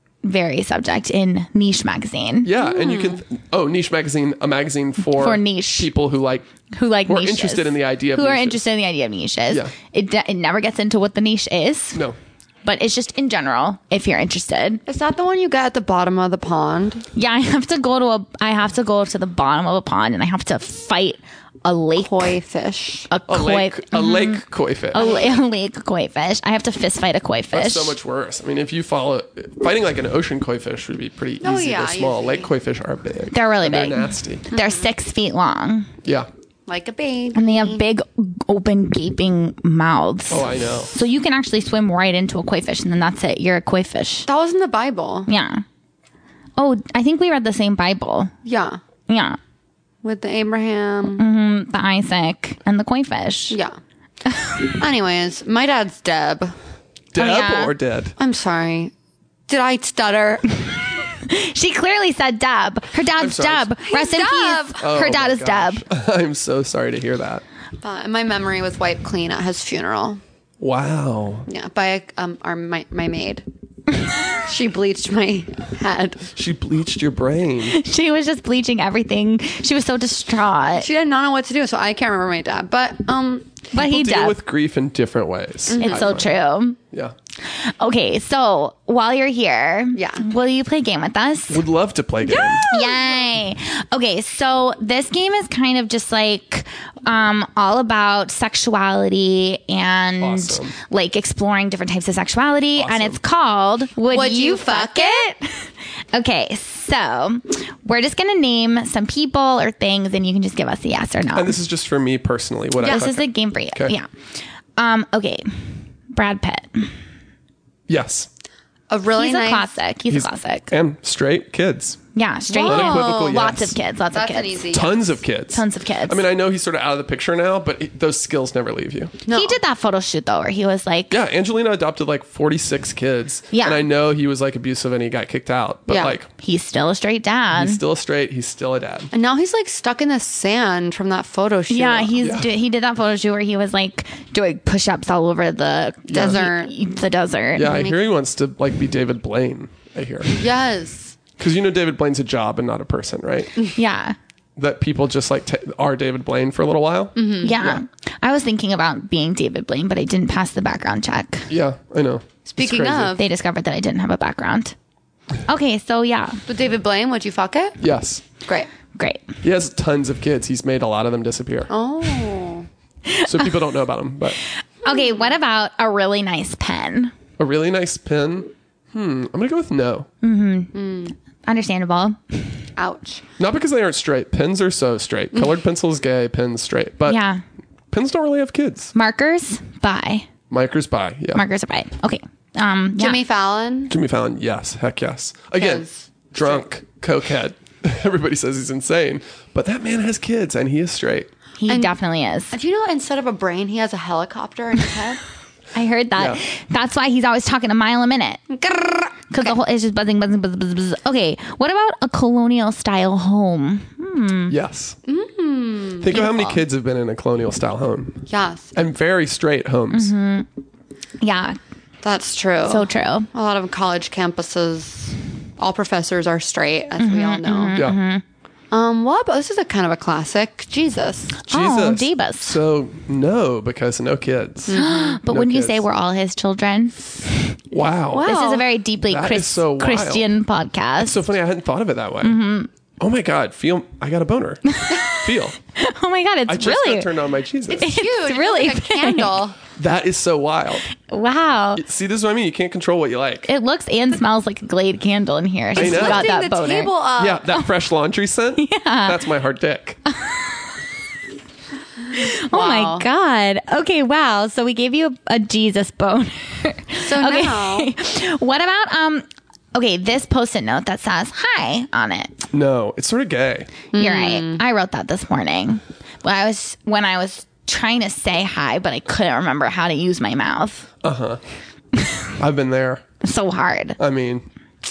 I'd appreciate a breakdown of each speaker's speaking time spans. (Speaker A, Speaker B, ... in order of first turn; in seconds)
Speaker A: 0.2-2.5, 5.1-5.9, 6.7-12.0, 12.6-14.8, 17.1-22.3, 23.1-27.9, 33.3-35.9, 37.3-44.3, 45.3-45.6, 46.6-48.3, 49.1-49.4, 51.2-53.6, 54.3-54.6, 57.1-57.7, 61.1-65.8, 77.6-80.9, 83.7-84.4, 85.8-86.8, 87.4-91.6, 92.3-111.5, 112.8-114.1, 114.8-115.5, 116.1-116.9, 119.1-120.7, 122.1-124.8, 125.5-126.2, 129.3-131.2, 133.5-133.8, 136.4-137.8, 141.7-147.7, 153.7-154.2, 157.4-161.5, 163.2-164.7, 165.4-166.4, 168.9-169.4, 173.1-173.6, 174.8-177.1, 180.2-182.5, 187.1-187.4, 188.9-190.3, 191.3-193.2, 201.6-202.5, 205.7-208.5, 209.3-214.5, 216.1-216.6, 219.9-220.5, 221.2-221.6, 222.6-223.3, 227.0-228.2, 231.4-232.6, 234.7-237.5, 238.2-241.3, 242.2-242.7, 244.7-247.1, 247.8-249.4, 251.0-251.8, 253.5-256.9, 258.6-259.2, 260.1-260.8, 262.1-272.3, 273.9-280.9, 283.2-284.0
Speaker B: 2.4-6.5, 7.0-8.6, 23.3-25.1, 27.5-34.4, 36.0-36.3, 40.3-40.9, 57.1-58.1, 63.1-63.7, 64.8-67.4, 70.6-71.5, 76.3-77.8, 83.7-86.3, 91.5-92.6, 100.2-100.7, 102.8-103.2, 111.3-113.9, 117.9-118.3, 120.1-122.0, 122.6-123.8, 124.7-129.2, 131.1-136.3, 137.5-139.1, 142.2-142.5, 146.1-146.4, 147.5-150.3, 151.4-153.5, 154.6-157.8, 161.5-163.2, 167.8-168.2, 169.4-171.7, 173.2-174.4, 177.4-180.1, 183.4-187.2, 187.9-188.9, 190.5-191.4, 193.9-201.3, 206.2-206.4, 214.5-215.0, 216.0-220.1, 231.5-235.8, 237.7-238.3, 239.0-240.2, 241.0-242.4, 243.0-245.6, 246.5-247.9, 249.7-250.9, 251.8-253.5, 255.8-256.3, 257.2-260.0, 272.5-273.7, 281.0-281.4, 282.4-283.0, 284.0-284.4
Speaker C: 2.6-3.2, 14.9-17.0, 22.0-23.1, 24.9-25.3, 31.4-32.5, 34.5-34.9, 36.7-37.8, 44.3-45.3, 48.4-48.8, 50.0-51.2, 54.6-56.5, 58.2-58.9, 59.5-60.6, 63.8-64.8, 67.8-70.2, 71.5-73.4, 74.3-76.3, 80.7-83.7, 85.7-86.0, 89.9-90.2, 92.4-93.0, 104.1-105.3, 118.9-119.7, 122.5-123.4, 124.1-125.1, 129.2-129.6, 135.9-136.2, 139.1-142.2, 146.1-146.7, 147.6-148.0, 150.3-151.2, 157.2-157.6, 162.5-163.2, 166.5-167.8, 171.7-172.7, 174.9-175.3, 180.7-181.1, 182.8-183.2, 193.0-193.9, 195.6-196.6, 201.7-201.9, 202.5-205.2, 208.5-209.5, 215.1-216.1, 218.3-218.8, 222.0-227.9, 228.7-231.4, 234.7-235.2, 238.1-238.7, 247.7-249.6, 255.7-257.6, 262.5-263.1, 267.0-267.9, 273.9-274.6